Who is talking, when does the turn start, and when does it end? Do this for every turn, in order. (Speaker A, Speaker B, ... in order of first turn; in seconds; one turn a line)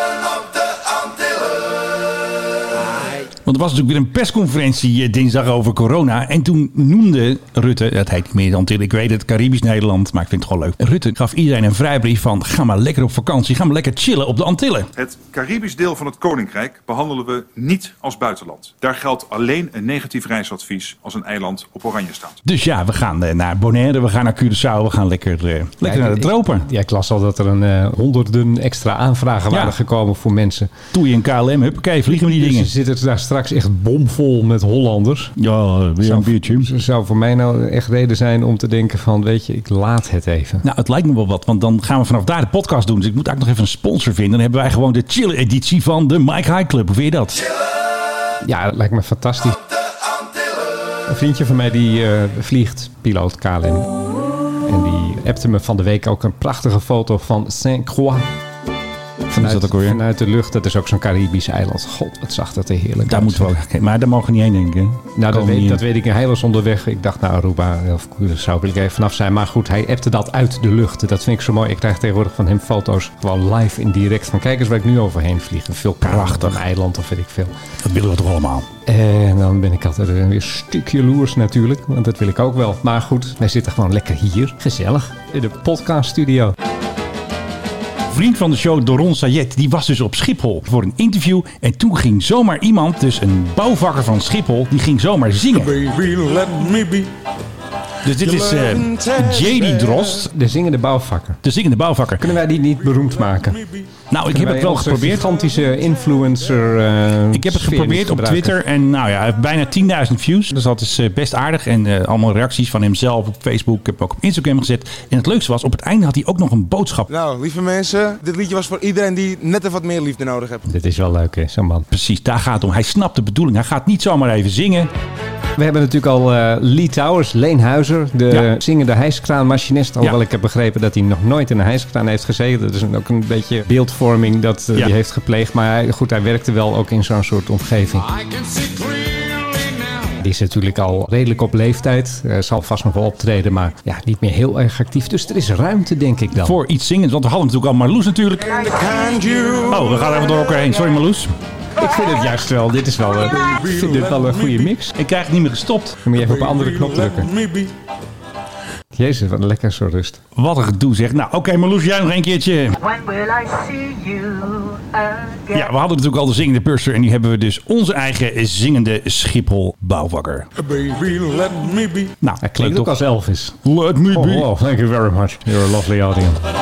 Speaker A: 3.4-14.9
Speaker B: 14.9-22.4
Speaker A: 22.4-26.7
Speaker C: 25.8-30.7
Speaker A: 29.5-29.8
Speaker A: 30.9-32.7
Speaker C: 32.1-35.3
Speaker A: 35.4-36.7
Speaker C: 36.0-40.6
Speaker A: 40.6-47.4
Speaker C: 48.4-49.6
Speaker C: 51.1-53.9
Speaker C: 54.7-58.3
Speaker A: 59.3-60.0
Speaker C: 59.3-63.5
Speaker A: 63.0-65.8
Speaker C: 65.1-77.5
Speaker A: 76.0-76.6
Speaker A: 77.8-78.7
Speaker C: 78.8-86.5
Speaker A: 88.1-95.8
Speaker D: 95.5-97.1
Speaker A: 98.0-100.3
Speaker D: 98.2-100.1
Speaker C: 100.3-101.4
Speaker A: 101.4-102.3
Speaker C: 102.2-103.6
Speaker D: 102.9-103.8
Speaker A: 104.1-105.2
Speaker C: 104.3-108.6
Speaker A: 107.3-117.1
Speaker D: 117.1-120.6
Speaker C: 120.7-121.9
Speaker A: 121.9-124.9
Speaker C: 125.6-138.1
Speaker D: 138.6-139.2
Speaker C: 140.2-146.6
Speaker A: 146.4-148.7
Speaker D: 148.6-149.9
Speaker A: 149.6-151.3
Speaker C: 151.8-154.9
Speaker D: 153.3-154.7
Speaker A: 154.9-156.0
Speaker C: 156.0-157.3
Speaker D: 156.1-157.7
Speaker C: 158.9-160.2
Speaker A: 160.3-162.8
Speaker E: 162.8-165.3
Speaker A: 165.5-170.5
Speaker D: 170.6-172.1
Speaker A: 172.2-173.0
Speaker C: 172.4-173.6
Speaker A: 173.6-174.5
Speaker C: 174.1-176.4